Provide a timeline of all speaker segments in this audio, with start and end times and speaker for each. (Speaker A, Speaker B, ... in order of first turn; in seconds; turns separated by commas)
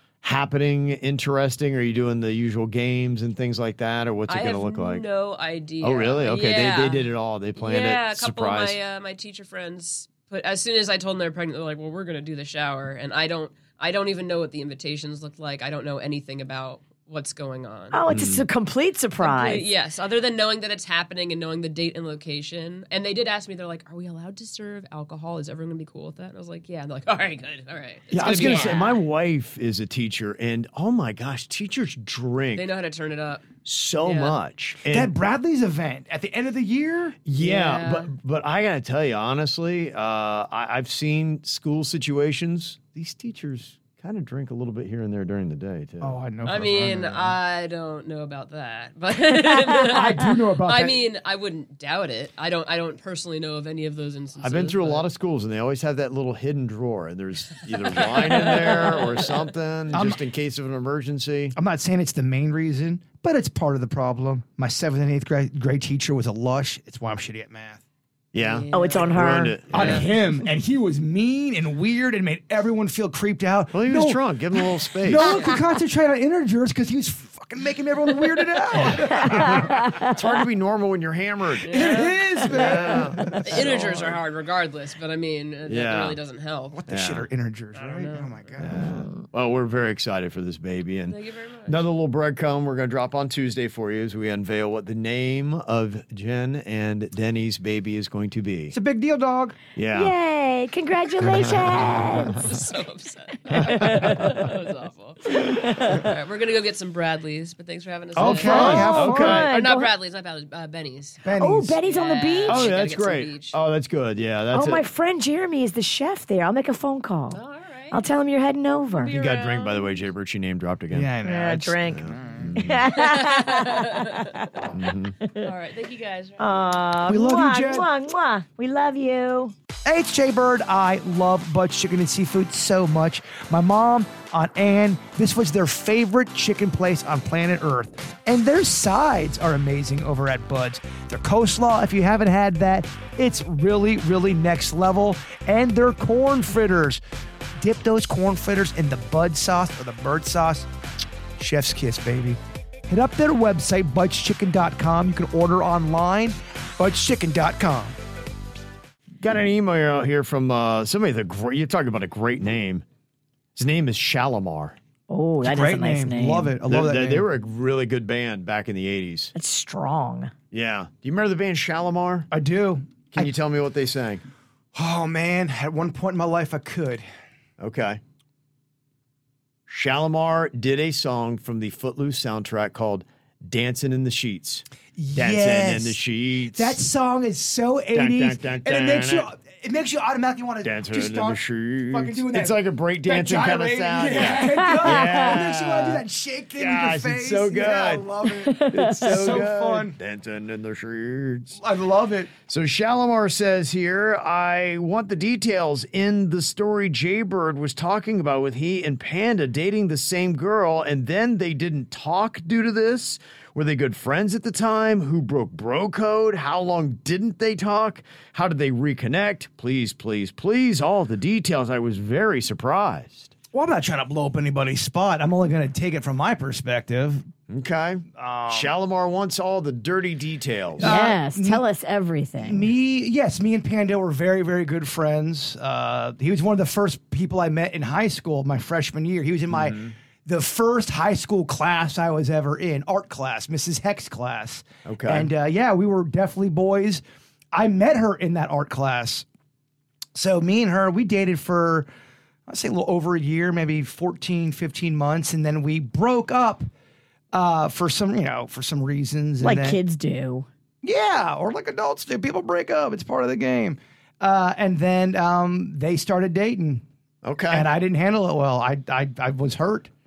Speaker A: 0.2-5.0, Speaker B: 4.3-18.0, Speaker A: 5.8-8.8, Speaker C: 17.9-19.6, Speaker A: 18.1-18.4, Speaker B: 19.2-29.0, Speaker D: 28.1-28.8, Speaker A: 28.2-32.6, Speaker B: 32.5-34.4, Speaker A: 33.6-35.1, Speaker D: 34.8-37.2, Speaker A: 37.2-47.3, Speaker B: 37.4-38.1, Speaker D: 46.0-47.0, Speaker B: 46.4-55.0, Speaker D: 49.8-51.0, Speaker A: 54.4-61.5, Speaker B: 57.8-59.5, Speaker D: 59.9-60.2, Speaker D: 61.5-67.8, Speaker A: 68.3-70.1, Speaker B: 68.4-70.1, Speaker C: 68.7-69.6, Speaker D: 69.7-80.0, Speaker A: 73.7-75.4, Speaker B: 75.2-75.5, Speaker A: 79.1-81.8, Speaker C: 79.6-80.1, Speaker B: 81.6-86.8, Speaker D: 81.7-83.7, Speaker A: 82.5-84.2, Speaker A: 85.7-86.2, Speaker D: 86.7-89.0, Speaker A: 86.9-87.2, Speaker B: 87.7-88.7, Speaker A: 88.6-98.7, Speaker B: 91.1-91.8, Speaker D: 98.7-99.6, Speaker A: 99.8-100.1, Speaker C: 99.9-102.4, Speaker A: 101.2-101.8, Speaker B: 102.3-111.2, Speaker A: 103.5-104.4, Speaker C: 103.6-104.2, Speaker C: 105.5-106.0, Speaker D: 108.1-109.4, Speaker A: 108.2-109.5, Speaker C: 108.3-109.9, Speaker D: 111.2-111.8, Speaker C: 111.4-112.7, Speaker B: 111.8-113.6, Speaker A: 112.5-114.8, Speaker C: 114.5-117.4, Speaker B: 117.3-118.0, Speaker C: 117.9-119.1, Speaker B: 119.0-120.0, Speaker A: 119.1-121.1, Speaker D: 120.9-122.5, Speaker C: 121.2-124.7, Speaker A: 121.9-122.9, Speaker B: 122.9-124.3, Speaker A: 124.7-125.2, Speaker C: 125.2-125.5, Speaker B: 125.4-126.7, Speaker C: 126.4-129.5, Speaker D: 127.1-127.9, Speaker D: 129.8-147.0, Speaker D: 147.6-150.7, Speaker D: 151.4-158.0, Speaker A: 159.2-162.8, Speaker A: 163.6-164.8, Speaker C: 165.1-166.5, Speaker D: 165.4-167.3, Speaker A: 166.7-169.3, Speaker C: 169.3-170.3, Speaker A: 170.5-172.3, Speaker D: 172.3-173.3, Speaker A: 173.1-174.2, Speaker D: 174.7-177.0, Speaker A: 177.6-178.0, Speaker A: 179.7-186.8, Speaker D: 184.9-186.0, Speaker D: 186.5-199.9, Speaker A: 187.9-189.3, Speaker A: 190.6-196.0, Speaker C: 194.4-195.3, Speaker A: 196.6-201.6, Speaker C: 198.4-199.4, Speaker D: 201.6-202.3, Speaker A: 202.5-223.3, Speaker D: 223.5-227.3, Speaker A: 227.5-230.9, Speaker D: 228.2-228.7, Speaker D: 230.8-231.6, Speaker C: 230.8-232.7, Speaker D: 232.4-247.0, Speaker A: 239.5-239.9, Speaker A: 244.8-245.3, Speaker D: 247.5-249.2, Speaker D: 250.1-251.9, Speaker D: 252.5-256.7, Speaker D: 257.3-259.8, Speaker C: 259.4-260.5, Speaker D: 260.8-266.8, Speaker A: 267.2-267.7, Speaker D: 267.5-269.9